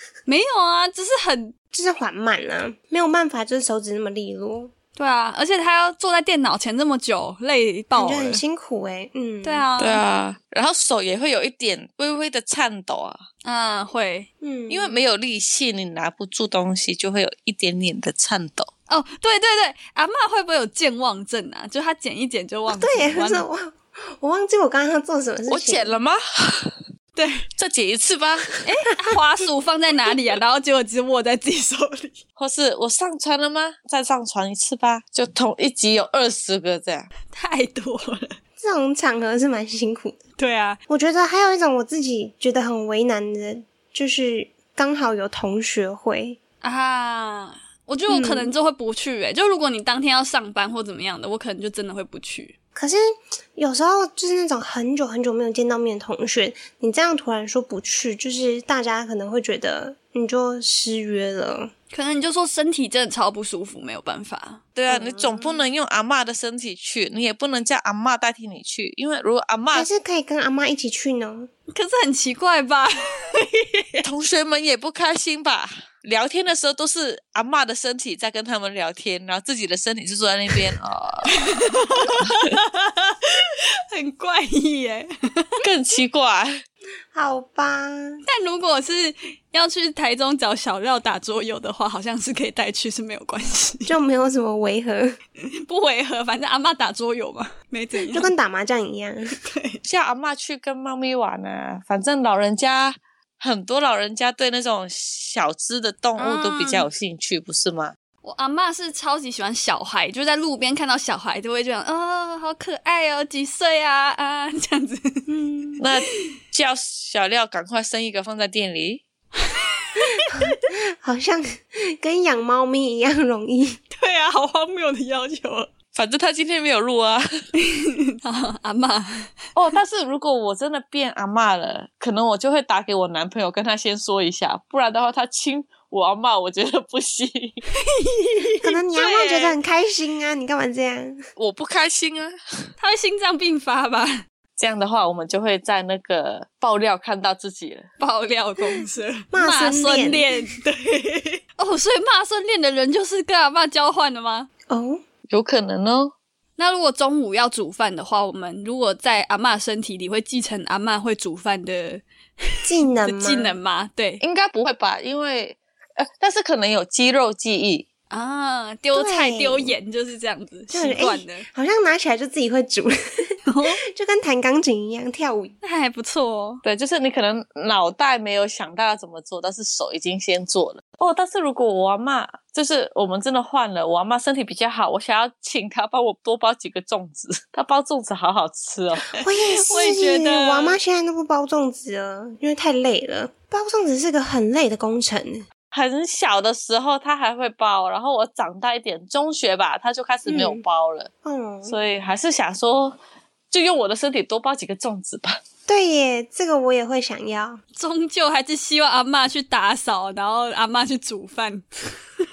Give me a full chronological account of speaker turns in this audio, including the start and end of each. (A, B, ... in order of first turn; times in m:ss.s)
0:00.3-0:01.5 A
0:01.7-0:04.7 B
0:05.0-0:08.4 A
0:07.9-0:09.7 B
0:09.4-0:10.0 A
0:09.8-0:13.2 C
0:13.4-0:14.3 A
0:14.4-0:15.0 B
0:14.7-0:18.7 C
0:18.9-0:23.5 A
0:22.7-0:26.0 B
0:25.5-0:26.8 C
0:27.2-0:27.5 A
0:27.6-0:28.6 C
0:28.6-0:32.2 A
0:32.4-0:37.1 C
0:37.3-0:38.4 A
0:38.6-0:40.2 B
0:40.4-0:40.8 A
0:40.9-0:46.4 B
0:46.6-0:52.6 A
0:48.1-0:48.5 B
0:52.8-0:53.0 B
0:53.6-1:01.7 B
1:01.9-1:04.6 A
1:04.8-1:09.9 C
1:04.9-1:05.6 B
1:09.7-1:11.5 B
1:11.7-1:14.0 A
1:14.0-1:21.4 C
1:21.3-1:25.5 A
1:25.6-1:26.5 C
1:27.1-1:28.2 B
1:28.3-1:33.9 A
1:33.9-1:35.2 B
1:35.7-1:38.3 A
1:38.1-1:39.4 B
1:39.4-1:39.8 A
1:39.8-1:47.9 C
1:46.2-1:46.9 A
1:48.2-1:55.3 A
1:55.3-1:55.8 B
1:55.8-1:59.0 C
1:59.5-2:00.5 A
2:00.3-2:03.8 B
2:03.9-2:05.7 A
2:06.0-2:07.2 C
2:07.6-2:09.4 A
2:09.6-2:17.6 C
2:17.9-2:19.6 A
2:18.6-2:21.3 B
2:21.4-2:22.4 C
2:22.8-2:24.2 A
2:24.6-2:27.9 C
2:28.0-2:34.5 A
2:29.3-2:30.3 B
2:34.7-2:35.0 B
2:35.3-2:36.1 C
2:36.6-2:44.2 A
2:42.7-2:43.6 B
2:44.2-2:47.8 C
2:48.1-2:51.5 A
2:48.9-2:49.8 B
2:50.7-2:55.6 B
2:53.5-2:53.8 A
2:55.6-2:56.6 A
2:56.6-3:09.1 C
3:09.2-3:15.4 B
3:09.4-3:10.8 A
3:15.7-3:21.1 C
3:20.3-3:20.6 B
3:21.2-3:21.8 B
3:21.7-3:23.0 C
3:23.5-3:25.4 C
3:25.7-3:27.6 B
3:27.8-3:31.6 A